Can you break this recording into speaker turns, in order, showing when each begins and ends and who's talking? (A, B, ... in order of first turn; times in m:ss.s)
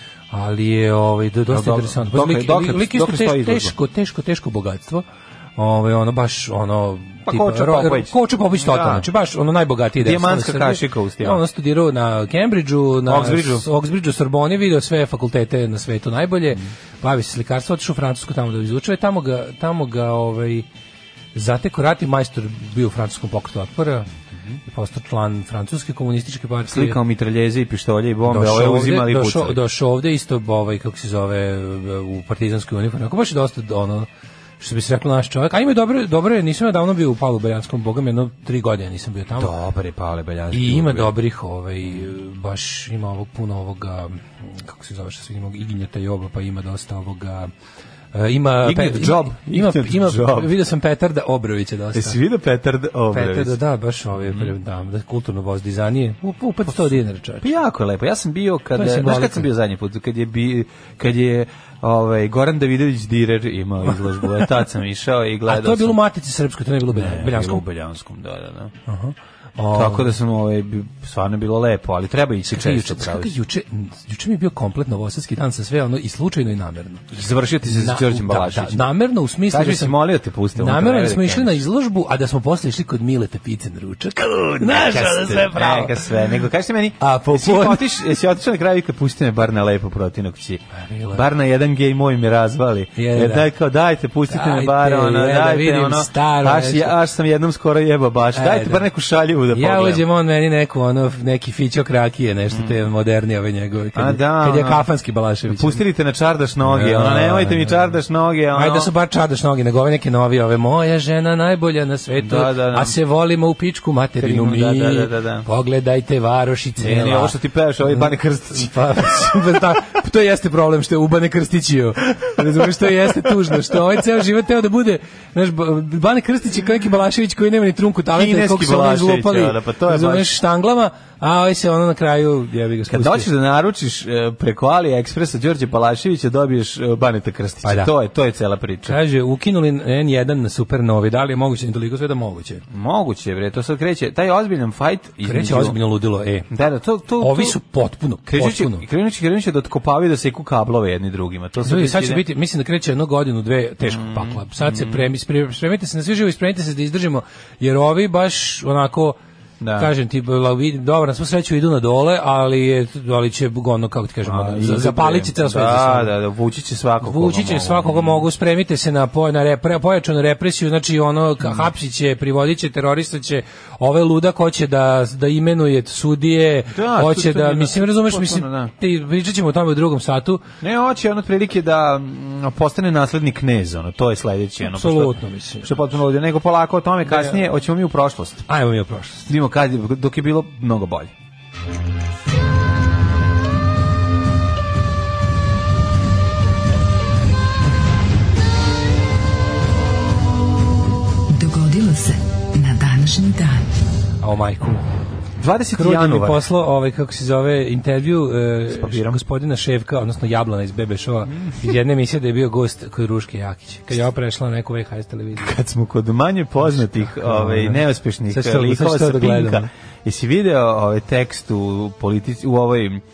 0:00.3-0:05.0 A
0:01.5-0:03.7 B
0:05.6-0:20.6 A
0:07.3-0:09.1 B
0:10.0-0:11.4 B
0:13.1-0:13.6 B
0:21.4-0:24.1 A
0:24.6-0:27.0 A
0:26.7-0:29.6 B
0:28.3-0:34.1 A
0:34.6-0:39.5 A
0:39.4-0:41.1 B
0:40.5-0:47.5 A
0:48.1-0:52.2 A
0:48.6-0:50.5 B
0:51.9-0:53.6 B
0:53.1-0:57.5 A
0:54.3-0:54.5 B
0:56.7-1:06.0 B
0:58.8-0:59.5 A
1:05.5-1:07.6 A
1:06.9-1:08.7 B
1:08.9-1:10.1 A
1:09.7-1:13.3 B
1:12.5-1:17.1 A
1:17.1-1:18.9 B
1:17.7-1:20.0 A
1:19.5-1:21.6 B
1:20.6-1:26.0 A
1:24.5-1:40.0 B
1:27.0-1:27.9 A
1:30.7-1:31.2 A
1:33.0-1:33.5 A
1:34.3-1:36.9 A
1:38.4-1:38.8 A
1:39.5-1:45.8 A
1:42.5-1:42.8 B
1:43.9-1:44.8 B
1:45.5-1:48.9 B
1:46.6-1:48.0 A
1:48.5-1:57.4 A
1:52.2-1:53.0 B
1:54.2-1:55.5 B
1:56.8-1:59.4 B
1:57.9-2:13.3 A
2:02.3-2:03.1 B
2:08.1-2:10.3 B
2:12.9-2:19.0 B
2:17.6-2:17.9 A
2:18.9-2:22.6 A
2:22.7-2:25.8 B
2:25.2-2:26.5 A
2:26.5-2:27.6 B
2:27.2-2:28.8 A
2:28.3-2:32.2 B
2:31.6-2:39.2 A
2:33.8-2:35.1 B
2:39.6-2:39.9 B
2:39.8-2:46.1 A
2:44.2-2:48.3 B
2:47.0-3:00.4 A
2:56.7-2:58.7 B
3:00.6-3:08.4 B
3:04.6-3:05.9 A
3:07.1-3:07.4 A
3:08.5-3:09.3 A
3:09.3-3:11.1 B
3:21.4-3:23.6 C
3:24.2-3:24.8 A
3:25.4-3:26.4 B
3:25.8-3:35.6 A
3:28.7-3:29.2 B
3:35.4-3:43.0 B
3:36.6-3:39.7 A